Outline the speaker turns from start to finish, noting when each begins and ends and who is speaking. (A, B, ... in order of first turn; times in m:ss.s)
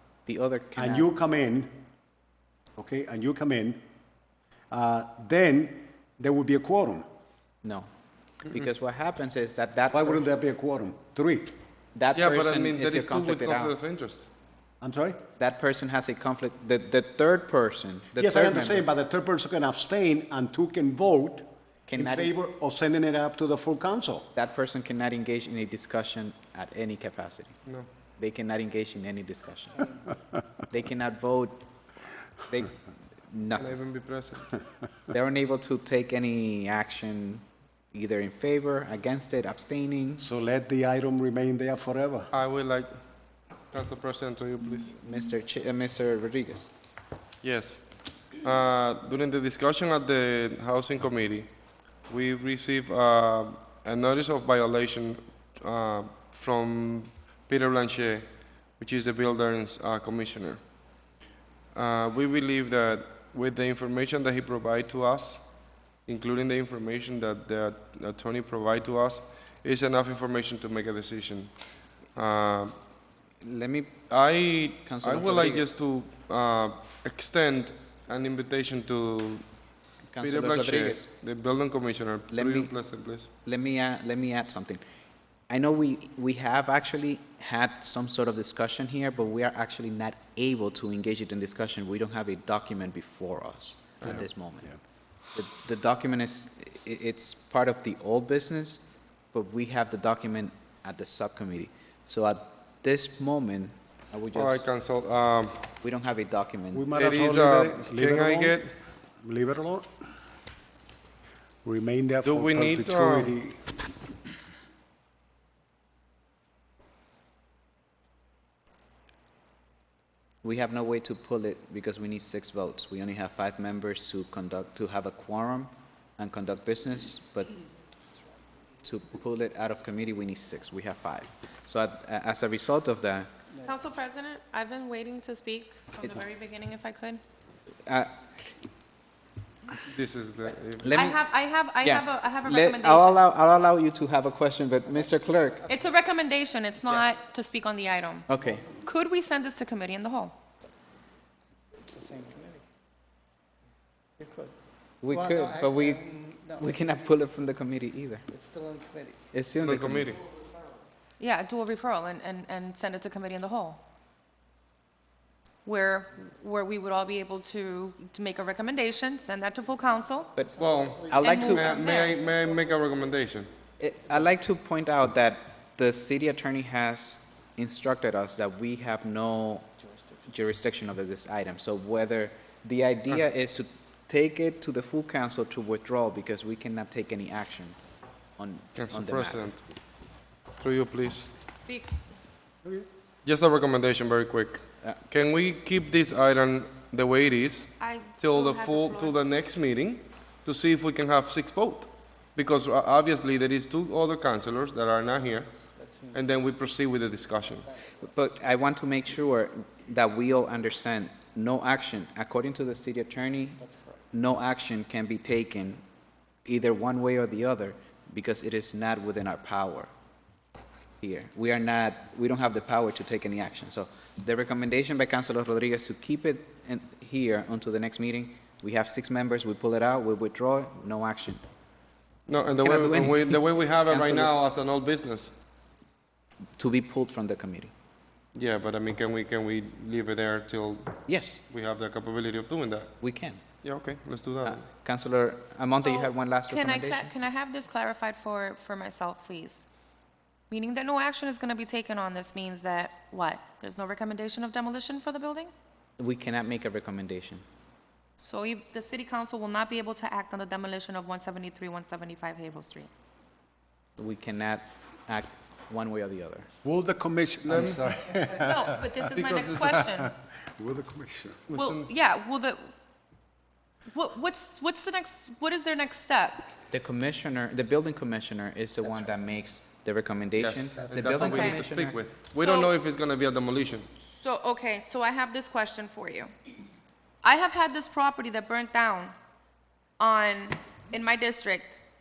0:00.2-0:01.1 A
0:00.8-0:01.7 B
0:02.8-0:03.8 B
0:04.7-0:07.0 B
0:07.6-0:07.9 A
0:08.5-0:10.2 A
0:09.9-0:11.5 B
0:11.9-0:13.8 A
0:12.1-0:14.3 C
0:14.8-0:15.2 B
0:15.4-0:18.9 A
0:18.2-0:21.4 B
0:21.8-0:22.3 A
0:22.0-0:24.3 B
0:24.3-0:27.6 A
0:28.2-0:29.9 A
0:30.7-0:31.6 A
0:32.5-0:33.8 A
0:33.6-0:34.6 C
0:35.1-0:40.3 A
0:40.2-0:42.3 B
0:42.3-0:43.0 C
0:43.7-0:45.0 C
0:45.0-0:46.7 A
0:47.4-1:00.7 C
1:01.7-1:12.8 C
1:13.4-1:14.0 A
1:14.1-1:23.3 C
1:14.8-1:15.7 A
1:20.1-1:21.1 A
1:22.3-1:22.7 A
1:23.4-1:24.8 A
1:25.5-1:34.7 A
1:34.0-1:34.2 C
1:35.3-1:44.6 A
1:44.3-1:45.6 C
1:45.8-1:46.9 A
1:46.7-1:48.7 B
1:46.9-1:48.7 C
1:49.2-1:49.9 B
1:51.6-1:53.7 B
1:52.2-1:53.3 C
2:00.4-2:07.5 A
2:08.8-2:13.3 A
2:13.6-2:17.2 D
2:17.8-2:18.1 A
2:19.9-2:21.1 C
2:20.8-2:21.2 A
2:20.9-2:23.3 D
2:21.8-2:25.6 A
2:25.7-2:30.3 D
2:28.3-2:28.6 A
2:31.8-2:32.6 E
2:34.2-2:34.5 E
2:35.0-2:38.2 A
2:35.1-2:36.8 E
2:38.3-2:39.2 E
2:39.3-2:40.1 A
2:39.6-2:40.2 C
2:41.2-2:43.8 D
2:45.6-2:50.3 D
2:50.4-2:51.8 A
2:50.4-2:52.4 E
2:50.6-2:53.5 C
2:51.2-2:52.1 D
2:53.8-2:59.7 A
3:00.2-3:07.8 A
3:08.4-3:09.5 A
3:08.8-3:09.6 C
3:10.6-3:11.3 C
3:11.7-3:12.0 D
3:13.2-3:27.7 C
3:17.8-3:19.2 D
3:25.8-3:26.2 E
3:28.0-3:33.6 A
3:33.6-3:33.9 E
3:34.1-3:35.8 A
3:36.4-3:39.9 A
3:41.0-3:51.4 A
3:52.3-3:55.3 C
3:52.6-3:54.3 A
3:56.6-3:57.7 A
3:58.3-4:02.9 C
4:01.0-4:01.4 A
4:03.0-4:03.4 A
4:03.6-4:04.6 C
4:04.4-4:07.1 A
4:05.8-4:09.6 D
4:10.5-4:15.5 D
4:16.0-4:17.4 A
4:18.2-4:22.9 D
4:24.0-4:26.5 A
4:26.6-4:29.0 B
4:27.4-4:28.4 C
4:28.4-4:30.1 D
4:29.1-4:29.8 C
4:29.8-4:31.4 B
4:31.5-4:31.9 C
4:31.5-4:32.7 D
4:33.9-4:36.5 D
4:36.7-4:42.0 A
4:40.4-4:43.9 C
4:41.2-4:41.6 D
4:42.3-4:42.7 D
4:44.2-4:46.3 D
4:47.2-4:49.1 D
4:50.0-4:51.8 D